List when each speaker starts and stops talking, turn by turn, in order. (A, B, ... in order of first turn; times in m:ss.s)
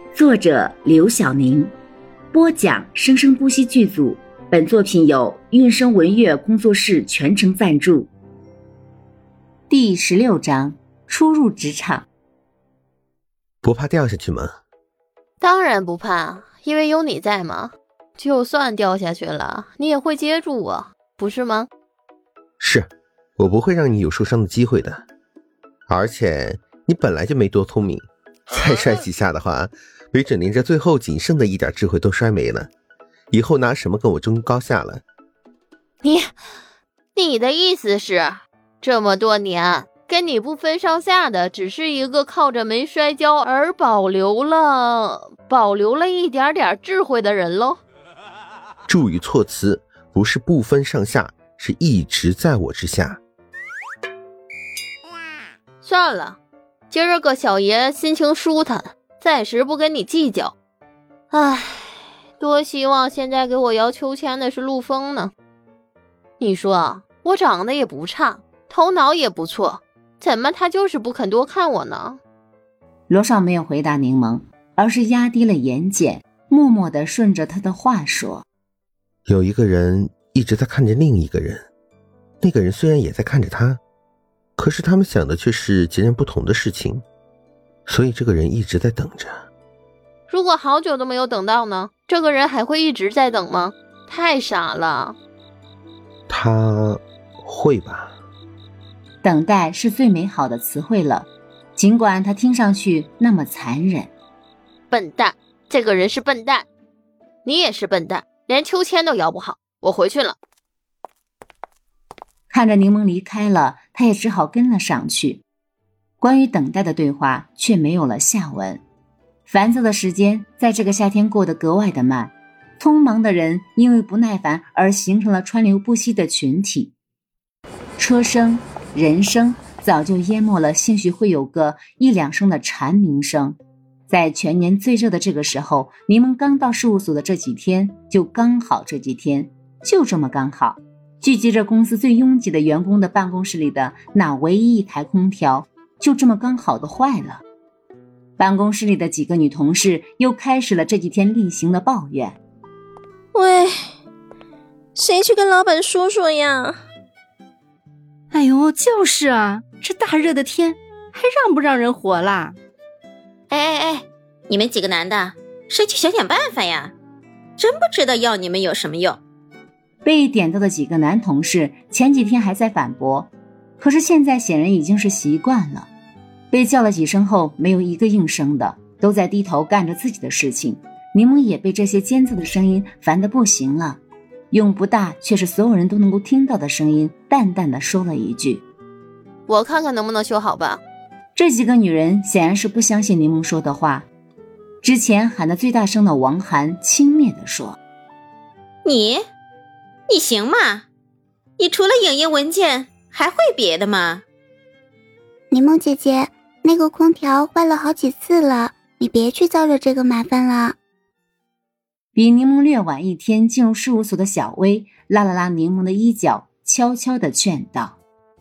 0:00.1-0:01.7 A
0:02.3-0:08.1 A
0:09.7-0:12.1 A
0:13.6-0:14.5 B
0:15.4-0:21.7 C
0:22.6-0:25.0 B
0:25.9-0:32.7 B
0:33.3-0:35.0 B
0:36.0-0:36.3 C
0:37.1-0:47.8 C
0:48.9-0:53.2 B
0:55.8-0:56.4 C
0:56.9-1:00.5 C
1:01.3-1:05.3 C
1:06.4-1:12.2 C
1:13.1-1:18.4 A
1:19.3-1:21.6 B
1:22.4-1:23.8 B
1:24.6-1:27.0 B
1:27.9-1:29.3 B
1:30.3-1:35.1 C
1:36.3-1:38.1 B
1:39.2-1:44.1 A
1:44.9-1:46.6 C
1:47.4-1:50.4 C
1:52.5-1:55.4 A
1:56.2-1:58.8 A
1:59.4-2:06.9 A
2:08.0-2:13.6 A
2:14.1-2:27.4 A
2:28.4-2:32.4 A
2:33.3-2:33.7 D
2:34.9-2:36.8 D
2:38.3-2:42.6 E
2:43.5-2:44.0 C
2:44.5-2:46.9 F
2:47.6-2:49.2 F
2:50.0-2:55.9 A
2:56.5-3:08.6 A
3:09.5-3:10.8 C
3:11.3-3:14.1 A
3:14.8-3:17.8 A
3:18.8-3:19.2 F
3:20.1-3:20.8 F
3:21.6-3:24.2 F
3:25.5-3:30.8 G
3:32.1-3:38.0 A